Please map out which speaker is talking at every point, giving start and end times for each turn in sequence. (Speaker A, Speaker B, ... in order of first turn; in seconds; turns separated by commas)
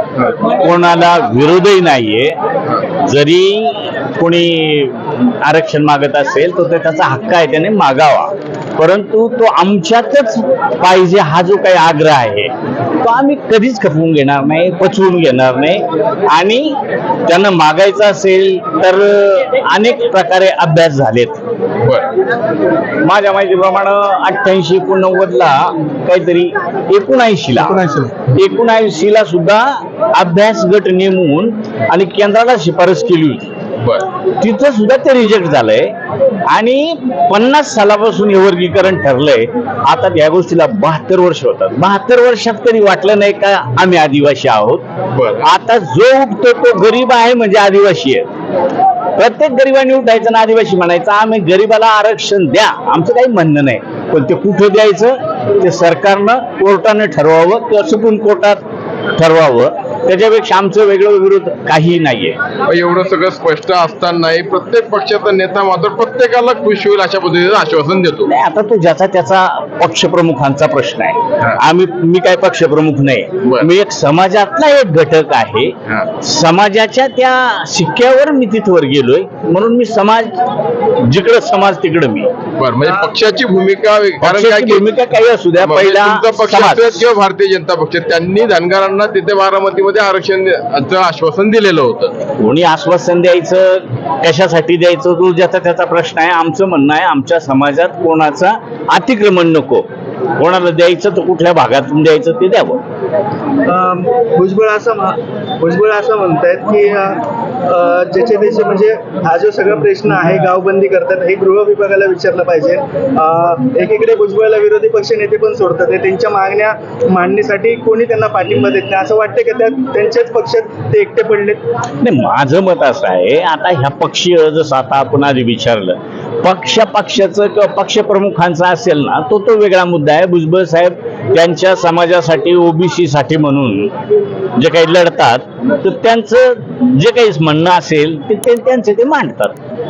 Speaker A: 0.4-2.4, Speaker A: 3.0-21.4, Speaker A: 23.0-33.5, Speaker B: 27.6-28.1, Speaker A: 34.4-35.9, Speaker A: 36.5-44.9, Speaker B: 45.1-45.5, Speaker A: 45.4-48.3, Speaker A: 49.1-58.6, Speaker A: 59.1-62.4, Speaker B: 62.7-68.3, Speaker A: 68.3-80.4, Speaker A: 81.0-82.3, Speaker B: 82.6-84.8, Speaker A: 84.2-87.0, Speaker B: 85.6-92.2, Speaker A: 92.4-102.8, Speaker C: 103.7-121.6, Speaker A: 122.0-133.9, Speaker A: 134.6-139.6